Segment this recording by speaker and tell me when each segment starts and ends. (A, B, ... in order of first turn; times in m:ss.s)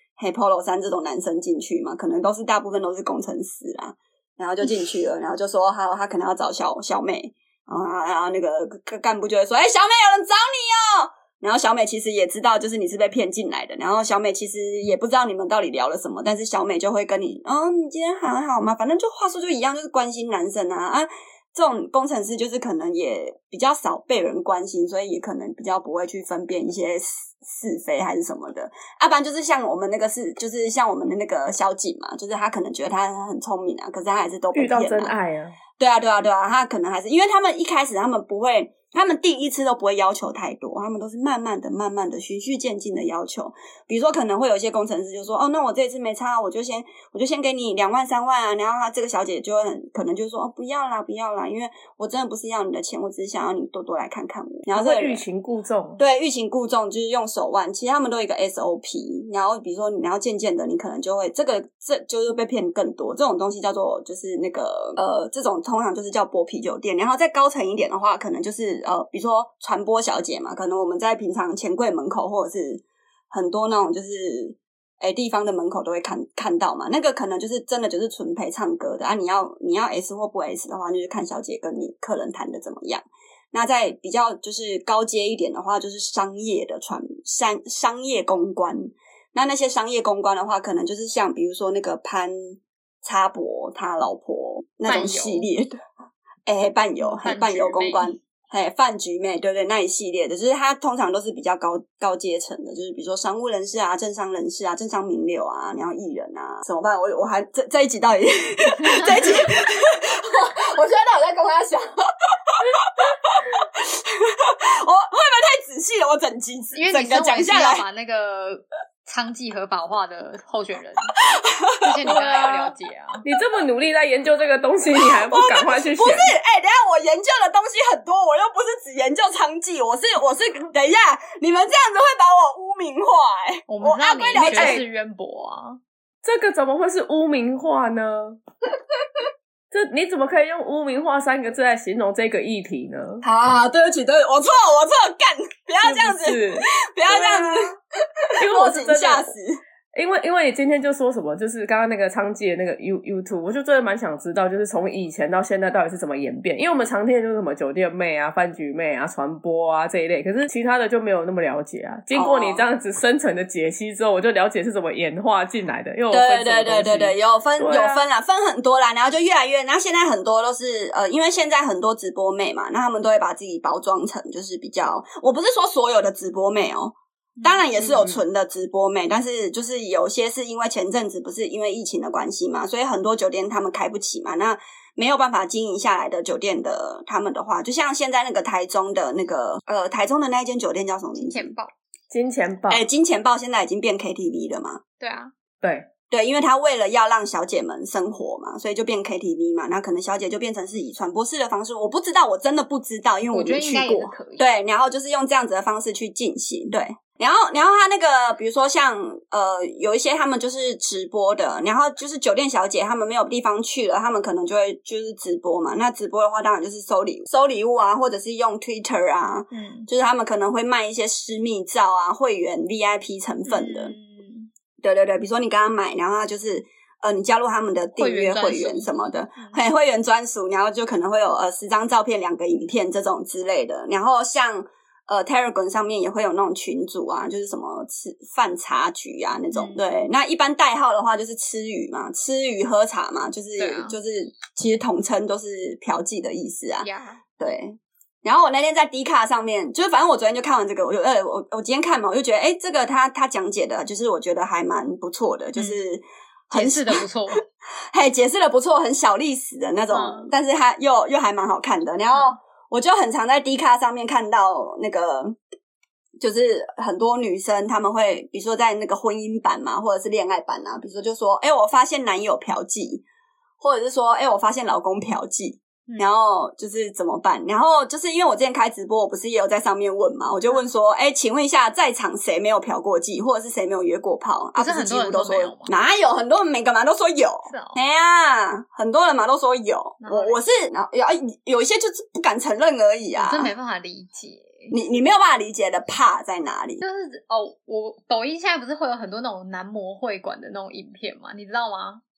0:00.2-0:35.2 A
0:34.5-0:35.6 B
0:35.8-0:55.2 A
0:54.7-0:56.0 B
0:56.0-1:35.8 A
1:34.9-1:35.5 C
1:36.5-1:57.8 A
1:37.0-1:38.2 C
1:56.7-2:01.1 C
2:01.2-2:02.3 A
2:01.8-2:03.2 C
2:02.1-2:02.7 B
2:03.2-2:06.3 B
2:05.0-2:14.8 A
2:13.7-2:15.8 C
2:14.4-2:14.8 B
2:16.2-2:18.4 B
2:19.7-2:23.2 B
2:23.2-2:29.6 A
2:25.8-2:27.7 B
2:28.4-2:29.3 B
2:29.9-2:48.0 B
2:42.1-2:42.6 A
2:46.1-3:11.5 A
2:57.4-2:58.0 C
3:11.2-3:11.7 C
3:12.1-3:12.8 B
3:12.7-3:14.8 A
3:15.0-3:15.3 C
3:15.6-3:15.9 B
3:16.1-3:43.9 A
3:23.3-3:24.4 C
3:39.5-3:39.9 C
3:43.5-3:44.5 C
3:44.8-4:17.0 A
3:48.0-3:49.6 C
3:59.5-3:59.9 C
4:03.6-4:04.0 C
4:06.8-4:07.2 C
4:16.5-4:17.4 C
4:17.9-4:25.4 A
4:19.9-4:20.3 C
4:26.2-4:33.0 A
4:33.6-4:53.5 A
4:44.6-4:45.7 C
4:47.5-4:47.8 C
4:50.0-4:50.4 C
4:53.2-4:54.8 C
4:54.7-4:56.8 A
4:56.8-5:02.0 C